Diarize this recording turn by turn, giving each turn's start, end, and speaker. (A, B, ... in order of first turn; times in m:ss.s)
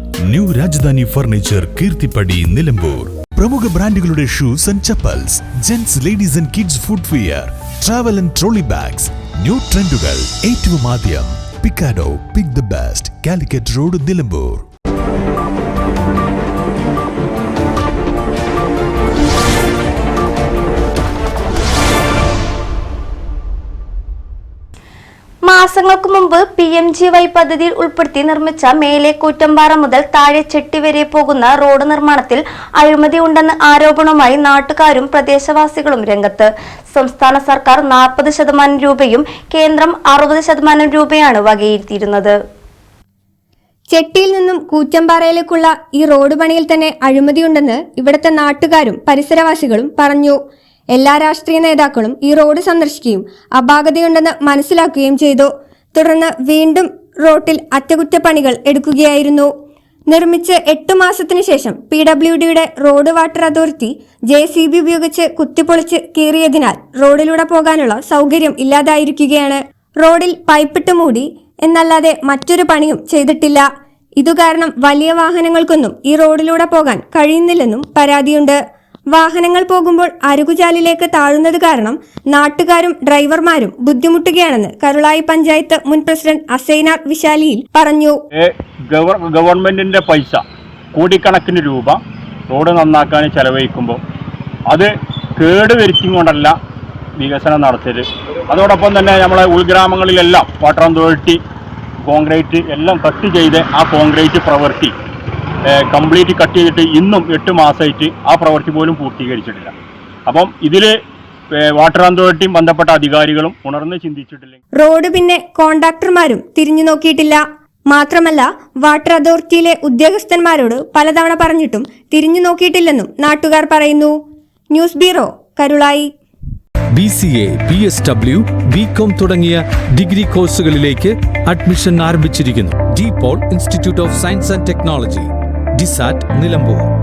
0:00.3-0:14.6 A
0:25.4-0:42.4 B
0:43.9-0:50.4 C
0:50.9-0:59.5 C
1:00.1-1:18.6 C
1:19.1-1:28.2 C
1:28.4-1:30.4 D
1:30.9-1:32.0 D
1:32.5-1:34.0 D
1:34.7-1:36.6 D
1:37.2-1:41.4 D
1:42.0-1:44.9 D
1:45.7-1:49.7 D
1:50.3-1:50.9 D
1:51.5-1:54.6 D
1:54.8-2:04.2 C
2:04.7-2:06.1 C
2:06.9-2:16.9 E